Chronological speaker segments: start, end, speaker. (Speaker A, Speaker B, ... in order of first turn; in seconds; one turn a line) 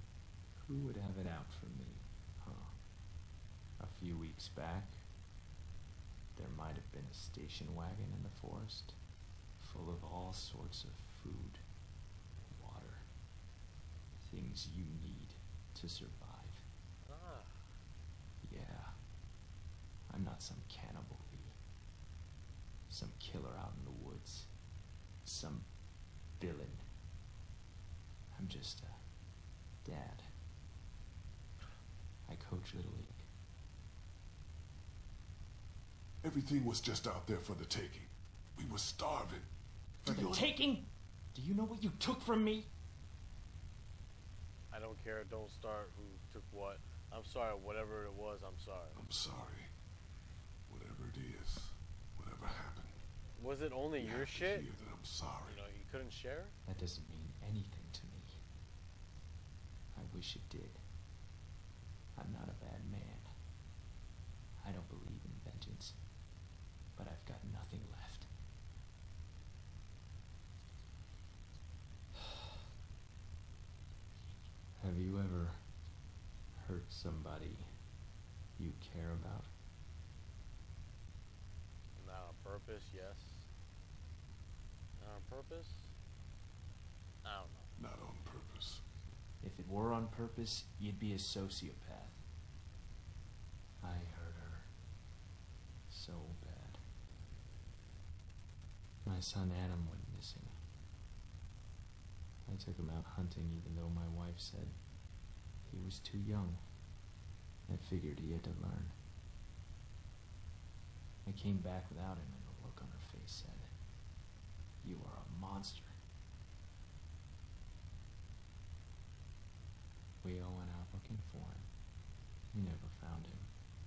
Speaker A: 0.6-2.8
Speaker A: 3.8-5.1
Speaker A: 6.3-9.0
Speaker A: 9.6-11.6
Speaker A: 12.4-13.1
Speaker A: 14.2-16.6
Speaker B: 17.0-17.6
Speaker A: 18.4-19.0
Speaker A: 20.1-21.6
Speaker A: 22.9-24.5
Speaker A: 25.2-26.9
Speaker A: 28.3-29.2
Speaker A: 29.8-30.3
Speaker A: 32.2-33.3
Speaker C: 36.2-39.5
Speaker C: 40.0-40.5
Speaker A: 40.0-42.7
Speaker B: 44.7-49.0
Speaker C: 48.9-49.7
Speaker C: 50.7-53.0
Speaker B: 53.4-54.7
Speaker C: 54.0-55.6
Speaker B: 55.4-56.5
Speaker A: 56.6-58.4
Speaker A: 59.9-60.8
Speaker A: 62.1-63.3
Speaker A: 64.6-66.1
Speaker A: 66.9-68.3
Speaker A: 74.8-75.8
Speaker A: 76.5-77.9
Speaker A: 78.5-79.5
Speaker B: 82.0-83.5
Speaker B: 85.0-85.9
Speaker B: 87.2-87.7
Speaker C: 87.8-88.8
Speaker A: 89.4-92.2
Speaker A: 93.8-94.7
Speaker A: 95.9-96.8
Speaker A: 99.0-100.6
Speaker A: 102.5-104.9
Speaker A: 105.6-106.7
Speaker A: 107.7-109.0
Speaker A: 111.2-113.8
Speaker A: 114.8-116.0
Speaker A: 120.2-121.7
Speaker A: 122.5-123.5